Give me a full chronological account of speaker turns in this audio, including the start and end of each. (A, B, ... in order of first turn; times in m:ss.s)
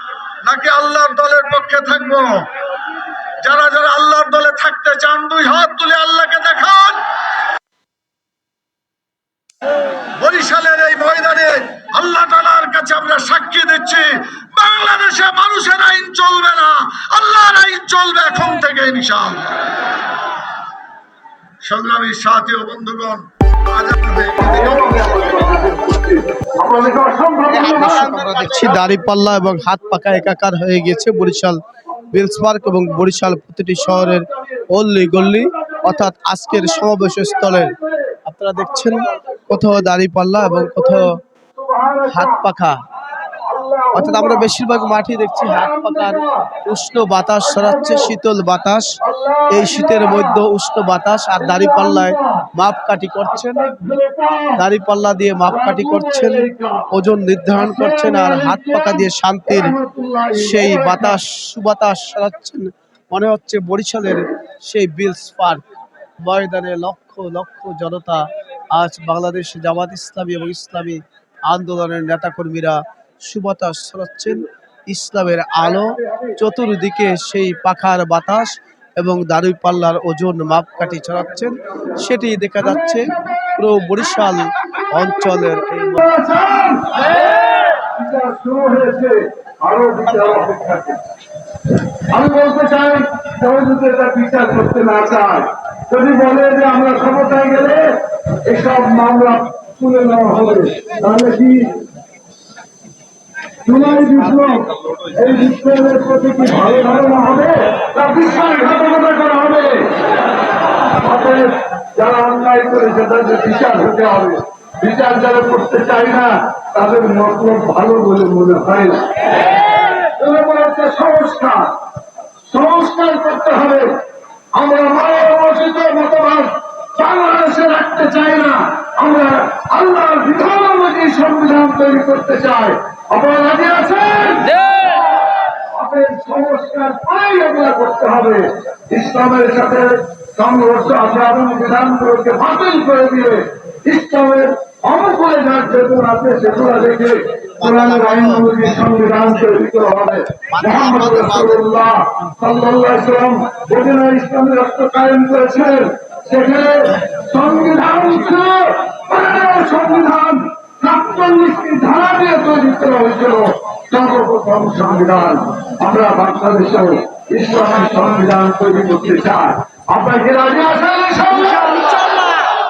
0:00.4-0:02.5 A
0:03.4-0:07.1 A
0:10.2-0:19.7 A
0:21.6-0:25.5 A
0:24.4-0:28.4 B
0:27.5-0:31.6 C
0:27.8-0:28.5 A
0:32.0-0:33.1 B
0:32.1-0:37.8 C
0:33.8-0:42.5 B
0:38.3-0:41.1 C
0:42.1-0:42.8 C
0:43.5-0:44.5 B
0:43.9-0:48.9 C
0:45.4-0:46.6 B
0:47.4-0:48.1 B
0:49.0-0:50.4 B
0:49.5-0:53.7 C
0:51.4-0:52.5 B
0:53.3-0:54.6 B
0:54.6-0:59.8 C
0:55.5-0:56.9 B
0:57.6-1:01.2 B
1:00.3-1:05.6 C
1:06.2-1:08.2 C
1:08.8-1:26.0 C
1:15.6-1:16.4 B
1:22.6-1:23.6 B
1:25.8-1:27.1 B
1:27.8-1:31.0 B
1:32.1-1:37.9 B
1:38.5-1:41.7 B
1:43.7-1:49.9 B
1:51.0-1:59.2 B
2:00.1-2:01.7 B
2:02.5-2:03.9 B
2:04.6-2:14.5 B
2:15.7-2:52.2 B
2:27.6-2:28.8 C
2:30.5-2:31.6 C